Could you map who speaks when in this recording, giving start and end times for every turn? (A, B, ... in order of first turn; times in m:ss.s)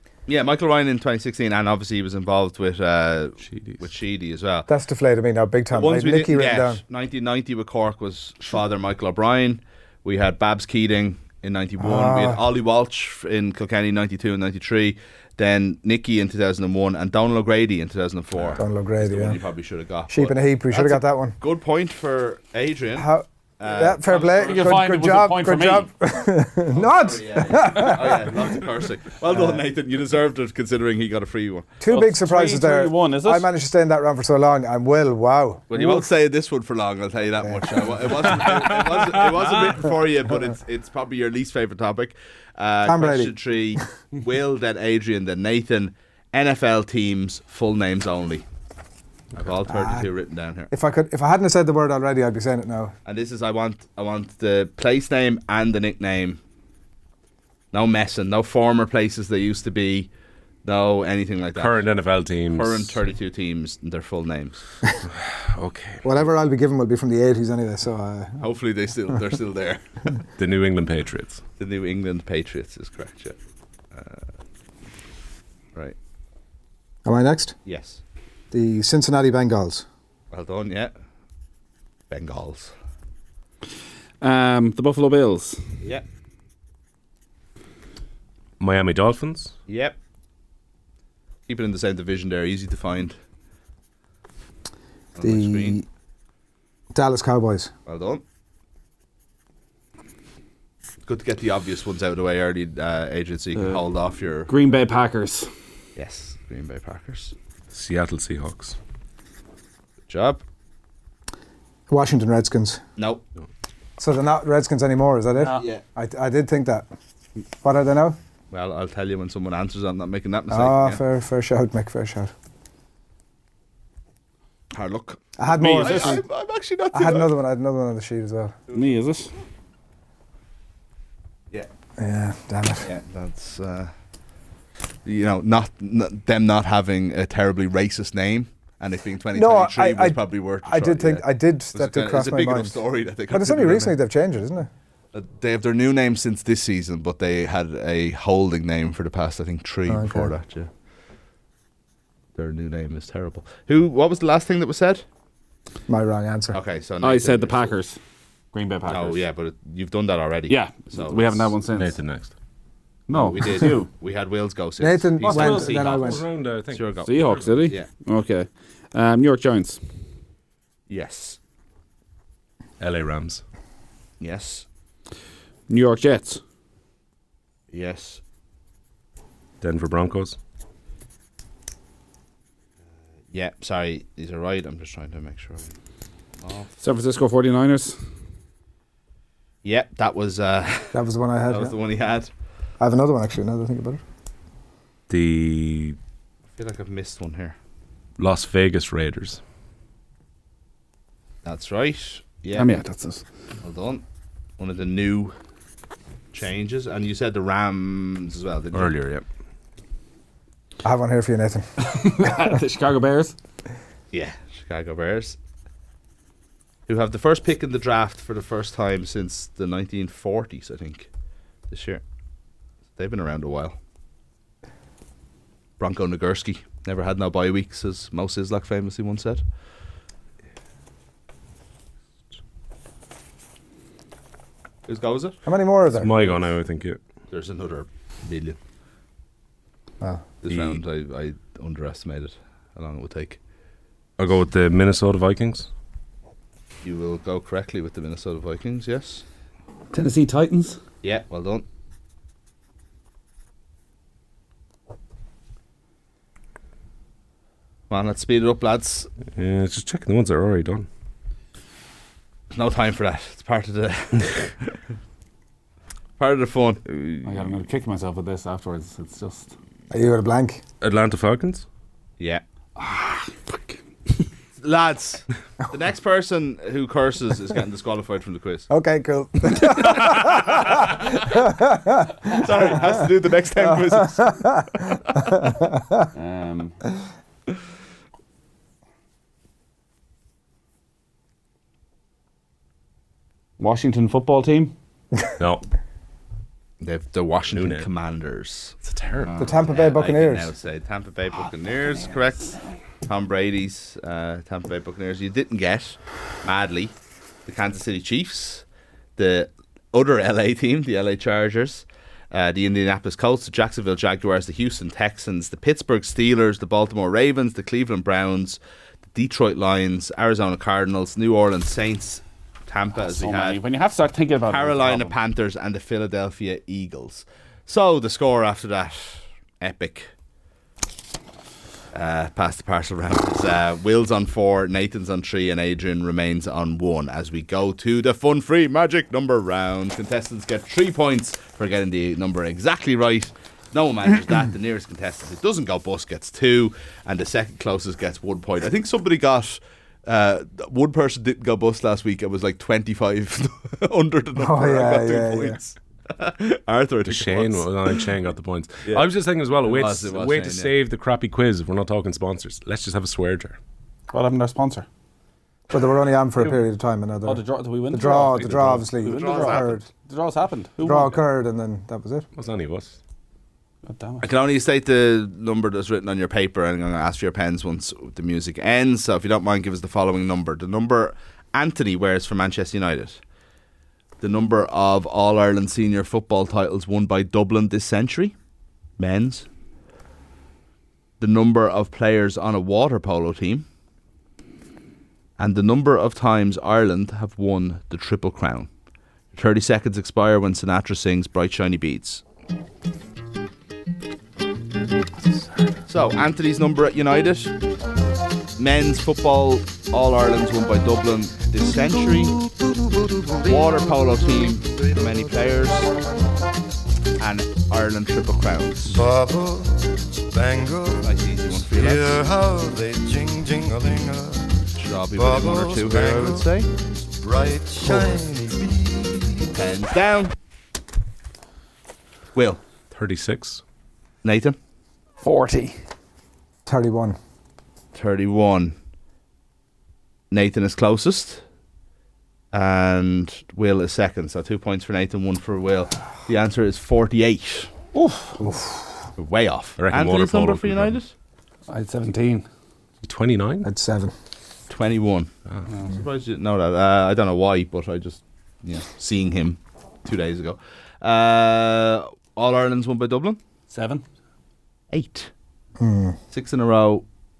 0:00.3-0:04.7 A
0:03.4-0:03.8 B
0:04.7-0:06.8 C
0:05.7-0:24.7 A
0:11.8-0:12.4 C
0:18.6-0:19.4 C
0:20.1-0:21.4 C
0:23.0-0:28.6 C
0:24.4-0:25.9 D
0:26.7-0:31.7 A
0:29.3-0:29.6 C
0:31.8-0:36.1 C
0:31.9-0:33.5 D
0:35.7-0:48.4 A
0:37.4-0:37.9 C
0:38.5-0:38.8 B
0:42.8-0:43.8 C
0:49.4-0:50.7 A
0:49.7-0:50.1 C
0:50.7-0:52.9 C
0:53.0-0:56.4 A
0:57.7-1:00.1 A
1:00.6-1:01.8 A
1:01.6-1:03.0 B
1:02.5-1:04.6 A
1:05.0-1:06.1 B
1:06.0-1:08.4 C
1:08.4-1:09.8 A
1:10.4-1:11.4 B
1:11.6-1:13.4 A
1:13.9-1:14.3 A
1:17.0-1:17.5 C
1:17.6-1:18.0 A
1:18.5-1:19.8 C
1:20.3-1:20.9 A
1:22.1-1:22.7 A
1:24.2-1:25.6 D
1:28.6-1:29.5 B
1:29.7-1:30.0 A
1:31.5-1:33.2 A
1:35.1-1:35.8 A
1:35.2-1:35.8 C
1:36.9-1:37.7 C
1:37.8-1:38.2 A
1:41.0-1:44.5 A
1:44.5-1:45.5 D
1:46.0-1:47.3 A
1:47.7-1:48.8 B
1:50.1-1:50.4 A
1:51.9-1:52.8 C
1:53.0-1:53.2 A
1:54.0-1:56.9 C
1:55.4-1:55.7 D
1:55.6-1:55.8 A
1:57.6-1:58.2 C
1:58.5-2:01.0 A
2:00.5-2:02.3 C
2:04.7-2:07.3 A
2:05.4-2:06.2 C
2:05.7-2:06.1 D
2:06.9-2:08.6 C
2:08.7-2:09.3 D
2:12.0-2:12.9 C
2:12.8-2:13.9 A
2:15.0-2:24.0 A
2:19.3-2:22.8 C
2:23.3-2:24.7 C
2:25.1-2:30.7 A
2:29.9-2:30.3 C
2:32.4-2:35.0 A
2:35.9-2:36.6 C
2:36.5-2:37.7 A
2:37.0-2:38.0 D
2:38.5-2:39.2 D
2:38.9-2:41.5 A
2:40.5-2:41.9 D
2:41.7-2:42.3 B
2:43.1-2:43.9 D
2:43.1-2:47.1 A
2:44.8-2:46.2 C
2:45.2-2:45.8 D
2:45.4-2:47.6 B
2:47.0-2:49.8 D
2:50.9-2:51.4 A
2:52.8-2:53.4 B
2:54.2-2:54.6 A
2:55.7-2:56.4 D
2:57.7-2:58.2 A
2:59.6-3:00.4 B
3:03.3-3:05.7 A
3:06.4-3:06.7 A
3:06.8-3:08.0 D
3:09.6-3:12.3 A
3:10.9-3:11.7 C
3:12.8-3:14.0 C
3:15.1-3:16.0 B
3:16.6-3:17.6 A
3:18.2-3:19.4 B
3:21.4-3:22.7 A
3:22.5-3:23.2 D
3:23.6-3:24.0 A
3:24.6-3:25.4 A
3:26.3-3:29.2 A
3:28.7-3:29.2 B
3:30.8-3:32.5 C
3:31.8-3:33.4 D
3:34.1-3:35.4 A
3:36.9-3:41.1 A
3:41.7-3:42.0 A
3:43.0-3:43.8 A
3:45.8-3:49.4 A
3:54.9-3:55.4 A
3:55.4-3:56.2 C
3:56.0-3:57.0 B
3:57.3-3:58.6 A
4:00.4-4:03.4 A
4:00.5-4:00.8 B
4:04.2-4:05.7 B
4:06.8-4:09.2 A
4:09.9-4:10.8 D
4:11.0-4:11.6 A
4:17.9-4:19.1 A
4:19.3-4:20.9 B
4:22.5-4:24.7 A
4:26.2-4:26.8 A
4:27.2-4:29.5 D
4:29.9-4:30.6 C
4:30.8-4:31.6 B
4:32.8-4:34.2 D
4:34.6-4:38.7 A
4:38.7-4:43.0 C
4:40.1-4:40.9 A
4:42.3-4:44.4 A
4:43.6-4:46.1 C
4:46.1-4:46.8 D
4:53.6-4:54.7 D
4:55.4-4:55.6 B
4:56.8-5:06.9 A
4:57.5-4:57.9 B
4:58.8-4:59.3 B
4:59.4-5:00.5 C
5:07.4-5:08.6 A
5:09.2-5:18.6 A
5:19.1-5:23.6 A
5:23.0-5:25.1 D
5:24.5-5:30.1 A
5:31.9-5:58.0 A
5:54.4-5:55.6 C
5:57.1-6:03.6 B
5:59.6-6:00.7 A
6:04.1-6:04.9 D
6:05.7-6:09.8 C
6:07.2-6:11.2 D
6:08.4-6:08.8 B
6:09.0-6:09.8 A
6:10.8-6:12.2 C
6:12.4-6:13.0 B
6:13.9-6:14.2 D
6:14.2-6:23.2 A
6:24.2-6:28.3 A
6:29.0-6:29.5 A
6:31.2-6:33.6 A
6:35.4-6:38.7 A
6:39.3-6:42.2 A
6:45.9-6:47.5 A
6:48.6-6:52.4 A
6:53.0-6:53.7 E
6:53.4-6:55.9 A
6:57.2-6:59.0 A
6:58.9-7:01.1 E
7:01.0-7:02.3 A
7:01.7-7:04.6 E
7:04.8-7:06.7 A
7:05.2-7:09.6 E
7:09.5-7:10.3 A
7:12.3-7:12.6 A
7:12.9-7:13.6 B
7:14.2-7:14.6 A
7:15.2-7:15.8 D
7:16.6-7:17.2 C
7:17.9-7:18.7 A
7:20.3-7:21.4 A
7:22.5-7:27.7 A
7:27.9-7:28.4 D
7:28.4-7:28.8 C
7:29.2-7:31.1 A
7:29.8-7:31.0 B
7:31.7-7:32.4 D
7:33.0-7:33.7 B
7:33.6-7:34.1 C
7:34.7-7:43.4 A
7:43.7-7:44.0 D
7:44.9-7:45.3 A
7:45.8-7:46.2 C
7:46.3-7:47.0 A